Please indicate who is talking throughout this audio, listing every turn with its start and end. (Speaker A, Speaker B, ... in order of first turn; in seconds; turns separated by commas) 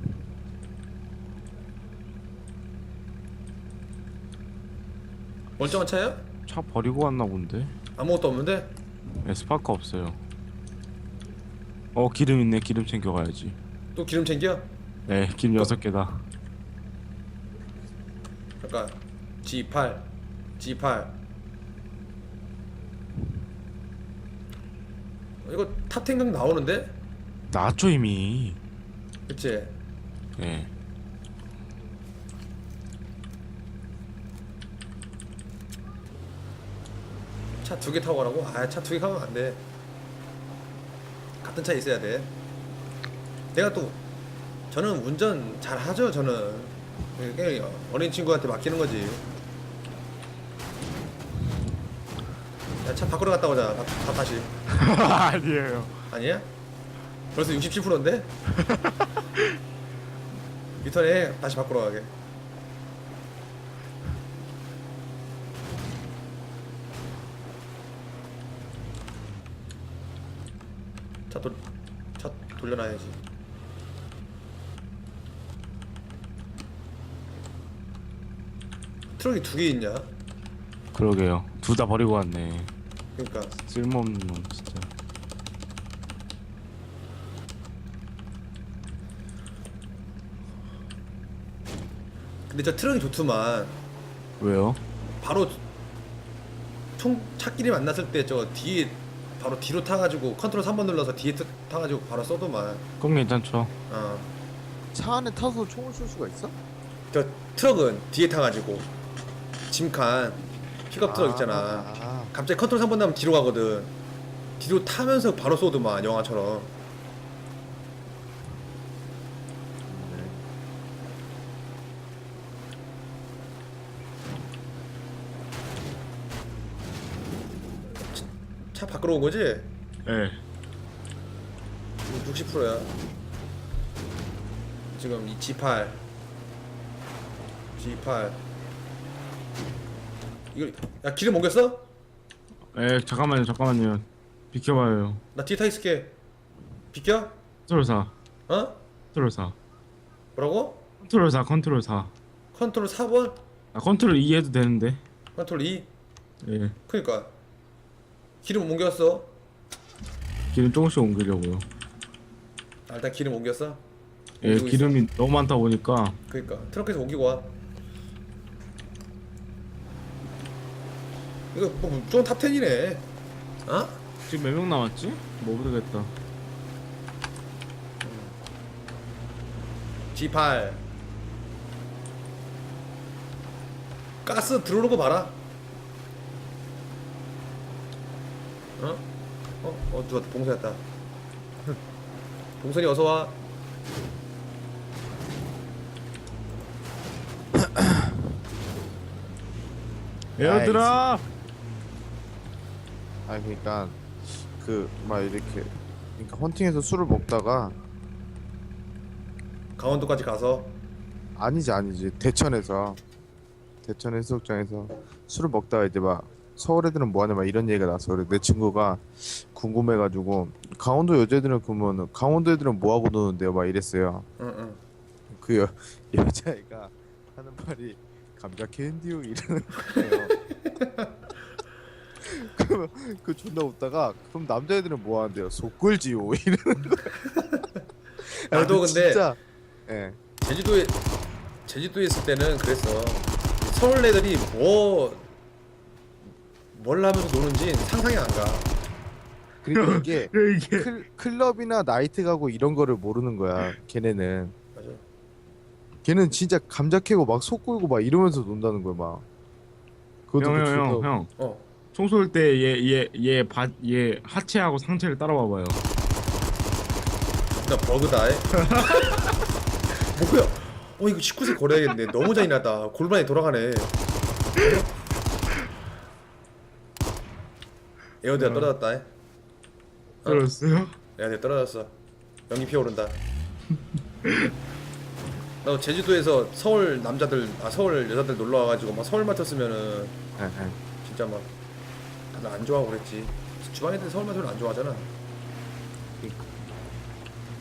Speaker A: 5.6-6.2, Speaker B: 6.5-7.7, Speaker A: 8.0-8.7, Speaker B: 9.2-10.2, Speaker B: 11.9-13.6, Speaker A: 14.0-14.7, Speaker B: 15.1-16.3, Speaker A: 18.6-20.1, Speaker A: 20.6-21.1, Speaker A: 25.4-26.9, Speaker B: 27.5-28.6, Speaker A: 29.3-29.8, Speaker B: 30.4-30.7, Speaker A: 37.6-39.6, Speaker A: 41.4-42.3, Speaker A: 43.5-44.0, Speaker A: 44.7-49.2, Speaker A: 52.8-54.5, Speaker B: 54.7-55.9, Speaker A: 56.1-56.5, Speaker A: 57.3-58.3, Speaker B: 58.6-59.5, Speaker A: 60.8-62.1, Speaker A: 71.3-71.6, Speaker A: 72.2-73.2, Speaker A: 79.2-80.1, Speaker B: 80.9-82.7, Speaker A: 83.2-83.6, Speaker B: 83.7-84.9, Speaker A: 92.5-93.8, Speaker B: 94.4-94.8, Speaker A: 95.2-95.6, Speaker A: 97.0-102.9, Speaker B: 103.0-103.7, Speaker A: 103.9-104.3, Speaker C: 104.9-106.5, Speaker A: 107.1-108.9, Speaker A: 109.7-113.9, Speaker C: 111.0-112.3, Speaker A: 114.6-116.7, Speaker C: 119.9-120.5, Speaker A: 128.1-129.7, Speaker B: 130.1-130.4, Speaker A: 132.1-132.9, Speaker A: 134.9-136.0, Speaker A: 137.8-138.4, Speaker A: 140.5-141.9, Speaker B: 142.7-145.2, Speaker A: 145.3-146.2, Speaker A: 146.9-147.4, Speaker B: 147.7-148.1, Speaker A: 148.5-148.8, Speaker B: 149.1-149.6, Speaker A: 150.4-150.8, Speaker B: 151.0-152.1, Speaker A: 152.5-153.4, Speaker B: 153.7-155.0, Speaker A: 155.4-155.9, Speaker B: 156.4-156.8, Speaker A: 156.9-157.3, Speaker A: 158.4-159.3, Speaker B: 160.5-161.7, Speaker A: 162.9-163.8, Speaker A: 164.4-165.0, Speaker B: 164.4-166.2, Speaker A: 166.3-167.5, Speaker A: 171.5-173.1, Speaker A: 173.7-174.0, Speaker B: 174.3-176.1, Speaker A: 178.0-178.4, Speaker A: 180.1-180.8, Speaker A: 184.2-185.4, Speaker A: 188.8-189.1, Speaker A: 189.6-190.8, Speaker A: 192.6-193.4, Speaker B: 200.4-201.2, Speaker C: 200.4-201.0, Speaker C: 203.3-207.8, Speaker A: 209.8-210.8, Speaker C: 211.4-213.0, Speaker C: 213.8-224.3, Speaker A: 224.4-224.8, Speaker C: 225.3-230.3, Speaker A: 230.8-231.1, Speaker C: 232.2-237.4, Speaker C: 238.2-240.2, Speaker A: 238.5-239.2, Speaker A: 240.4-241.0, Speaker A: 241.7-245.3, Speaker A: 246.7-248.7, Speaker C: 249.6-254.5, Speaker B: 249.8-250.9, Speaker A: 254.8-255.0, Speaker C: 256.0-259.2, Speaker C: 260.3-261.1, Speaker B: 260.4-261.3, Speaker A: 261.4-261.6, Speaker B: 261.9-265.8, Speaker A: 267.6-269.1, Speaker B: 268.8-269.0, Speaker A: 270.1-273.9, Speaker A: 274.6-274.9, Speaker A: 278.2-279.1, Speaker B: 278.4-278.7, Speaker B: 280.2-280.9, Speaker A: 281.2-281.9, Speaker A: 282.5-283.2, Speaker B: 284.2-284.5, Speaker A: 285.6-290.1, Speaker C: 290.4-290.8, Speaker A: 291.0-291.5, Speaker A: 292.3-295.1